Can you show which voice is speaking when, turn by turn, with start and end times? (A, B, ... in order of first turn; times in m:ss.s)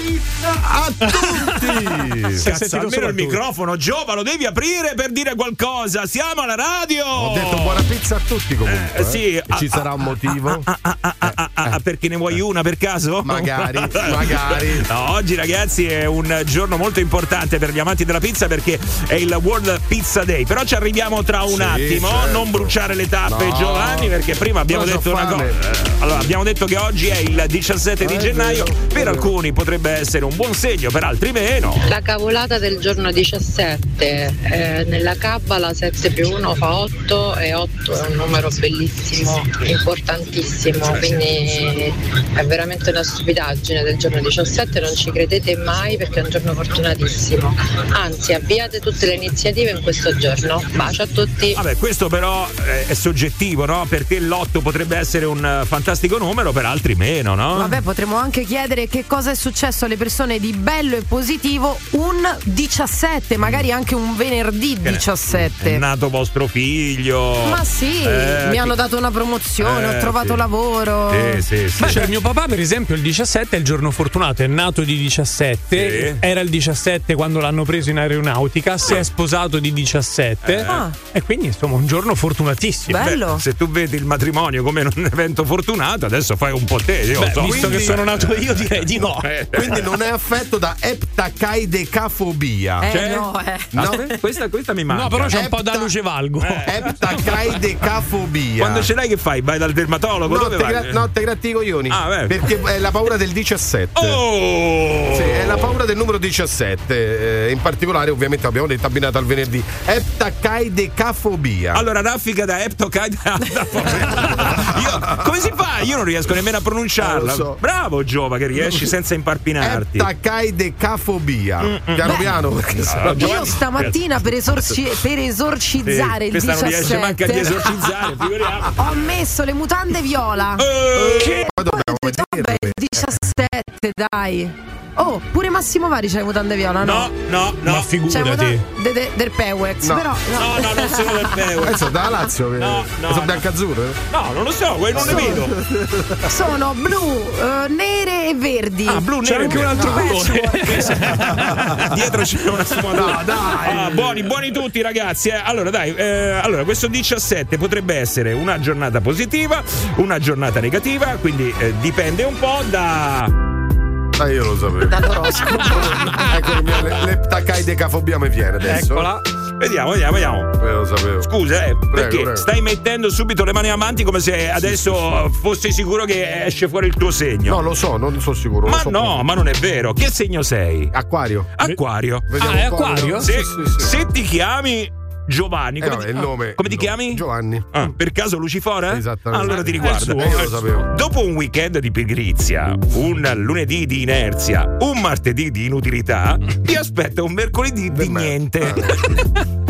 0:00.6-0:02.5 A
0:02.3-0:03.4 B
0:02.4-0:07.8 C
0:07.1-0:10.7 A
0:08.6-0:31.9 C
0:11.2-0:11.8 A
0:13.2-0:14.9 A
0:21.5-0:22.7 A
0:23.2-0:24.1 A
0:24.7-0:25.6 A
0:28.0-0:29.3 A
0:31.8-0:51.6 D
0:40.8-0:41.1 C
0:51.5-0:57.8 C
0:57.5-1:05.8 E
1:04.8-1:08.7 C
1:07.4-1:12.0 E
1:09.6-1:10.4 C
1:11.1-1:12.1 C
1:11.8-1:23.0 B
1:15.7-1:16.2 C
1:20.4-1:20.8 C
1:20.6-1:20.9 E
1:22.9-1:23.4 E
1:23.0-1:29.9 C
1:27.2-1:29.3 B
1:27.4-1:28.1 A
1:29.5-1:32.9 A
1:32.8-1:33.8 E
1:32.9-1:35.4 C
1:33.7-1:34.1 A
1:34.9-1:36.8 B
1:35.3-1:35.9 A
1:36.4-1:36.7 C
1:36.6-1:38.9 A
1:38.6-1:41.0 C
1:40.2-1:44.2 A
1:41.9-1:42.4 C
1:44.0-1:45.8 C
1:45.1-1:51.8 A
1:51.7-2:00.1 C
1:53.8-1:55.3 A
1:57.0-1:57.6 A
1:58.5-1:58.9 A
1:59.6-2:04.8 A
2:01.6-2:02.3 C
2:02.8-2:04.0 C
2:03.1-2:07.7 E
2:05.8-2:09.0 C
2:08.7-2:10.6 E
2:10.6-2:11.4 C
2:10.9-2:13.2 A
2:11.2-2:17.1 E
2:16.8-2:17.9 C
2:17.6-2:18.6 B
2:18.1-2:21.5 E
2:19.8-2:20.1 A
2:20.3-2:21.9 C
2:21.6-2:24.0 A
2:22.6-2:23.4 C
2:24.1-2:25.5 C
2:24.9-2:26.2 A
2:26.3-2:30.9 E
2:28.9-2:43.3 C
2:29.2-2:31.8 B
2:29.8-2:30.0 A
2:31.3-2:31.6 A
2:32.9-2:34.3 A
2:44.2-2:49.1 A
2:48.7-2:49.2 B
2:49.6-2:50.5 C
2:50.6-2:51.3 A
2:51.2-2:57.6 C
2:51.9-2:52.5 A
2:54.6-2:55.1 A
2:57.4-2:59.2 A
2:58.6-3:00.9 C
3:00.9-3:01.5 A
3:01.6-3:02.3 C
3:02.3-3:04.0 A
3:02.4-3:03.3 B
3:03.2-3:19.0 C
3:05.8-3:07.7 A
3:08.9-3:10.9 A
3:09.7-3:10.5 B
3:17.9-3:19.1 A